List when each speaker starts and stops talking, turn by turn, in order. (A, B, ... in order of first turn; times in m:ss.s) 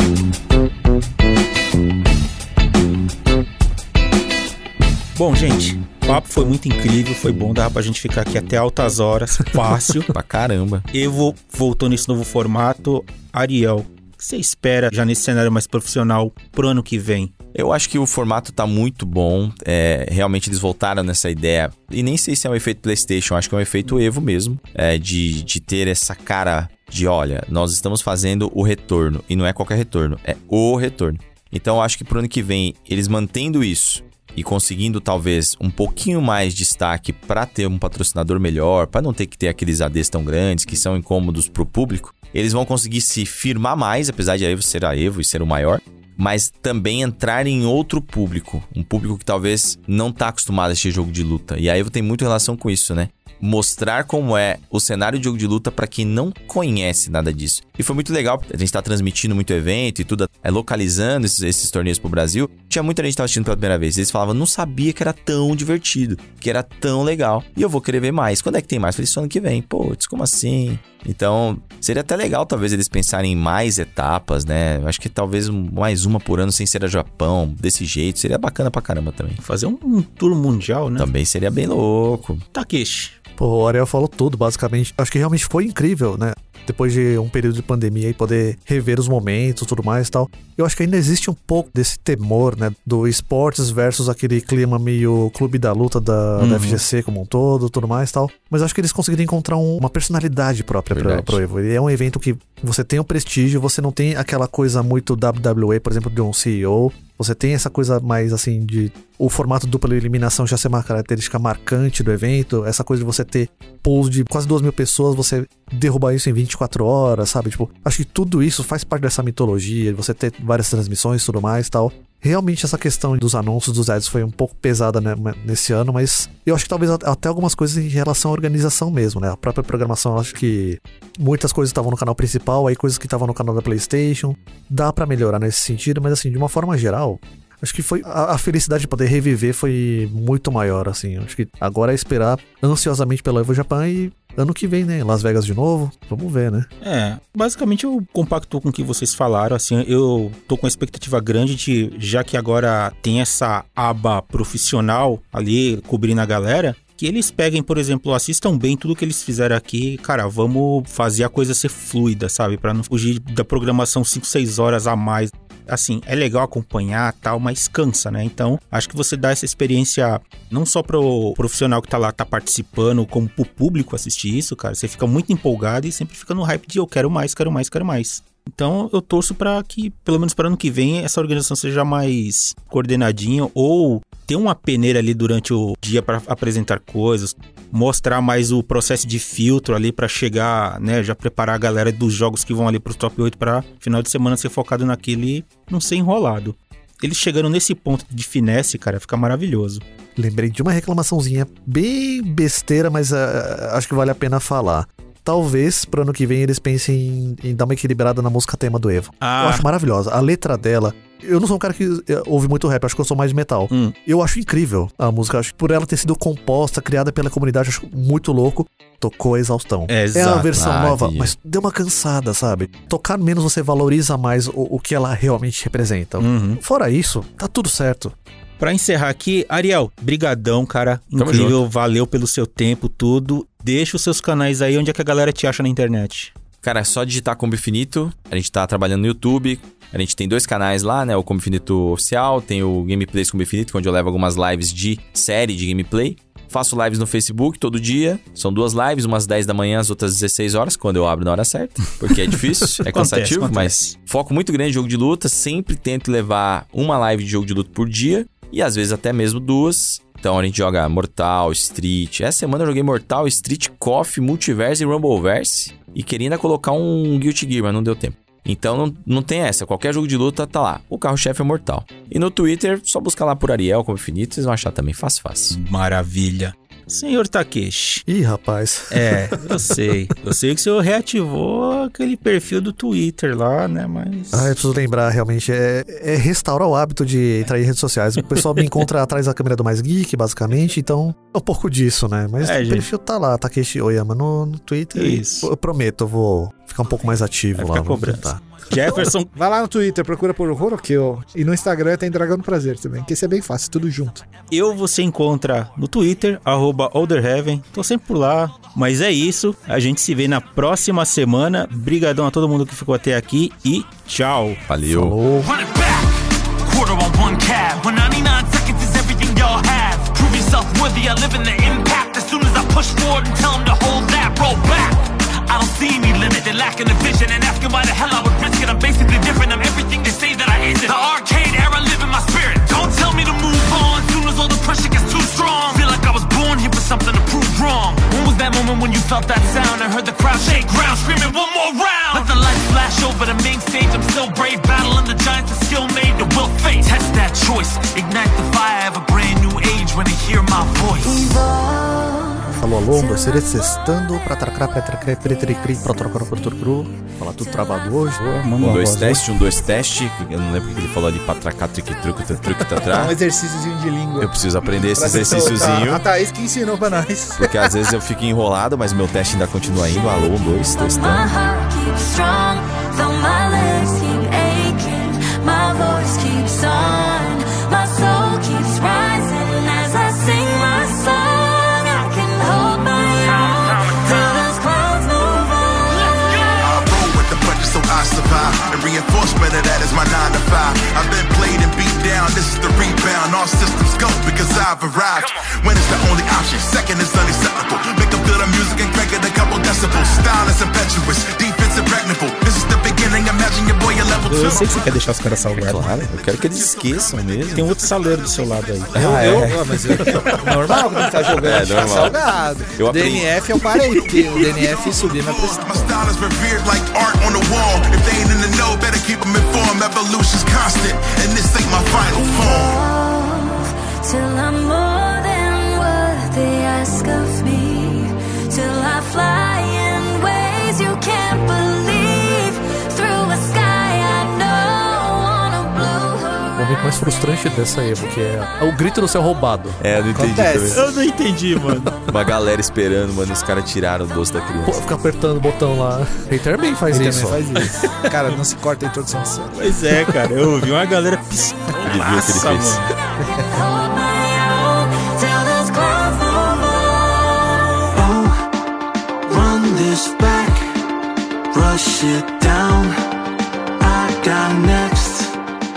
0:05.2-0:10.1 A
0:10.1-0:10.9 B
0:10.9-0:17.3 A
0:17.5-1:19.4 B
1:19.4-1:21.1 A
1:21.0-1:22.4 B
1:22.5-1:23.2 A
1:23.4-2:26.7 C
1:36.4-1:36.8 A
1:40.9-1:41.4 B
2:26.8-3:19.8 A
3:20.2-3:48.2 C
3:29.2-3:29.6 A
3:39.9-3:40.6 A
3:40.6-3:41.3 B
3:46.2-3:46.6 A
3:48.6-3:56.3 A
3:51.2-3:51.6 B
3:56.6-4:35.6 B
4:12.9-4:13.9 A
4:35.5-4:38.0 A
4:38.1-4:39.8 C
4:38.9-4:44.5 A
4:44.3-4:58.4 C
4:48.4-4:48.7 A
4:52.4-4:52.9 A
4:55.0-4:55.5 A
4:57.6-4:59.3 A
4:59.3-5:04.2 D
5:04.5-5:14.6 A
5:14.7-5:15.2 B
5:14.9-5:15.5 C
5:15.4-5:51.3 E
5:51.0-5:53.5 F
5:52.6-5:58.4 C
5:58.4-5:59.2 A
5:58.6-6:03.2 B
6:02.8-6:07.7 D
6:04.2-6:06.0 B
6:07.4-6:11.3 B
6:10.8-6:26.5 F
6:23.3-6:24.3 E
6:26.0-6:26.6 E
6:26.6-6:44.8 G
6:44.3-6:46.0 A
6:45.6-6:47.7 B
6:47.5-6:50.1 A
6:48.9-6:52.2 B
6:49.0-6:56.0 D
6:52.8-6:53.6 B
6:54.1-7:02.8 G
7:01.9-7:16.7 F
7:16.6-7:19.8 C
7:19.8-7:20.9 B
7:20.1-7:20.9 D
7:20.7-7:22.0 A
7:22.0-7:24.8 B
7:24.6-7:27.4 C
7:26.9-7:29.7 D
7:27.8-7:28.4 A
7:29.6-7:32.9 A
7:31.8-7:32.8 B
7:33.5-7:38.2 F
7:39.3-7:40.6 F
7:41.6-7:42.9 F
7:43.8-7:45.3 F